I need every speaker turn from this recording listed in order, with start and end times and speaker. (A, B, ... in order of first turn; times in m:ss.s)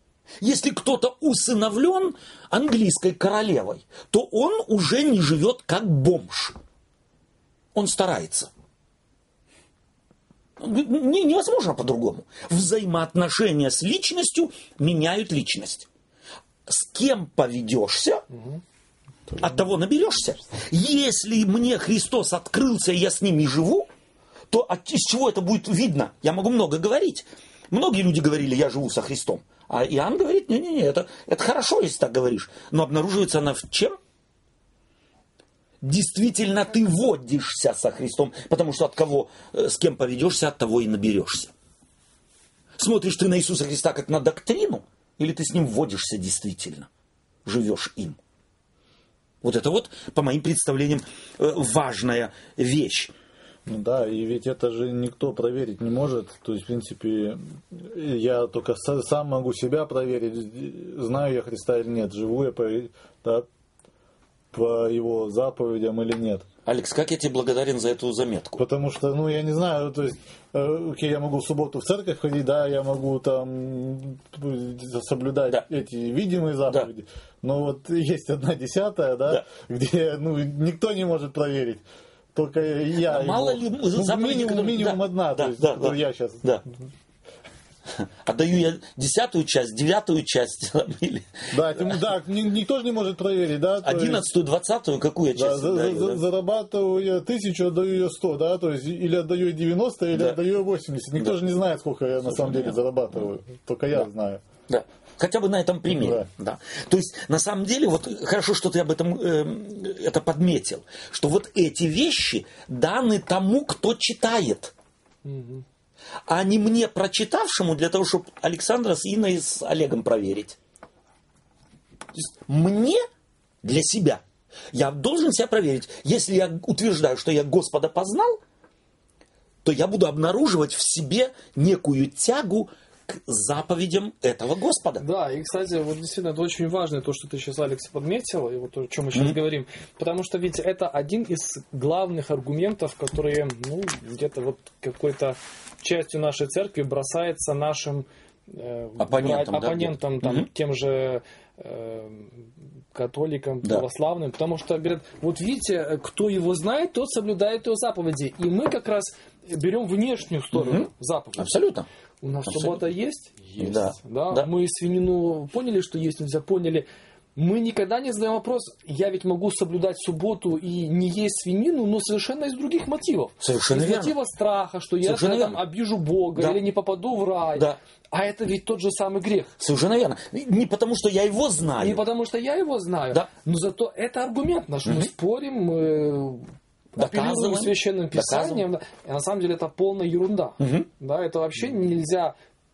0:00.4-0:06.6 A
0:07.7-0:08.5 A
0:10.6-0:15.9 A
0:16.6-0:18.2 A
0:18.3-0:18.6 B
0:19.4-0:23.9 A
0:24.5-0:34.0 A
0:35.8-0:41.5 A
0:42.8-0:46.9 A
0:47.4-0:48.2 A
0:49.4-0:53.1 A
0:53.6-1:03.5 C
1:04.5-1:06.4 C
1:06.6-1:08.6 A
1:08.6-1:26.5 C
1:23.0-1:26.6 A
1:28.0-1:31.9 A
1:31.5-1:34.3 C
1:33.8-1:36.2 A
1:35.3-1:44.4 C
1:42.3-1:42.8 A
1:44.7-1:54.7 A
1:45.9-1:46.3 C
1:55.2-1:55.6 B
1:56.3-2:00.6 A
2:02.1-2:03.0 A
2:03.6-2:08.4 A
2:09.6-2:15.0 A
2:15.0-2:41.6 B
2:29.0-2:30.5 A
2:40.5-2:41.9 A
2:42.2-2:59.5 B
2:42.4-2:42.9 A
2:43.6-2:44.5 A
2:53.4-2:54.1 A
2:55.0-2:55.6 A
2:56.3-2:56.6 A
2:59.6-3:02.0 A
3:01.8-3:12.3 B
3:07.0-3:08.6 A
3:10.6-3:10.9 A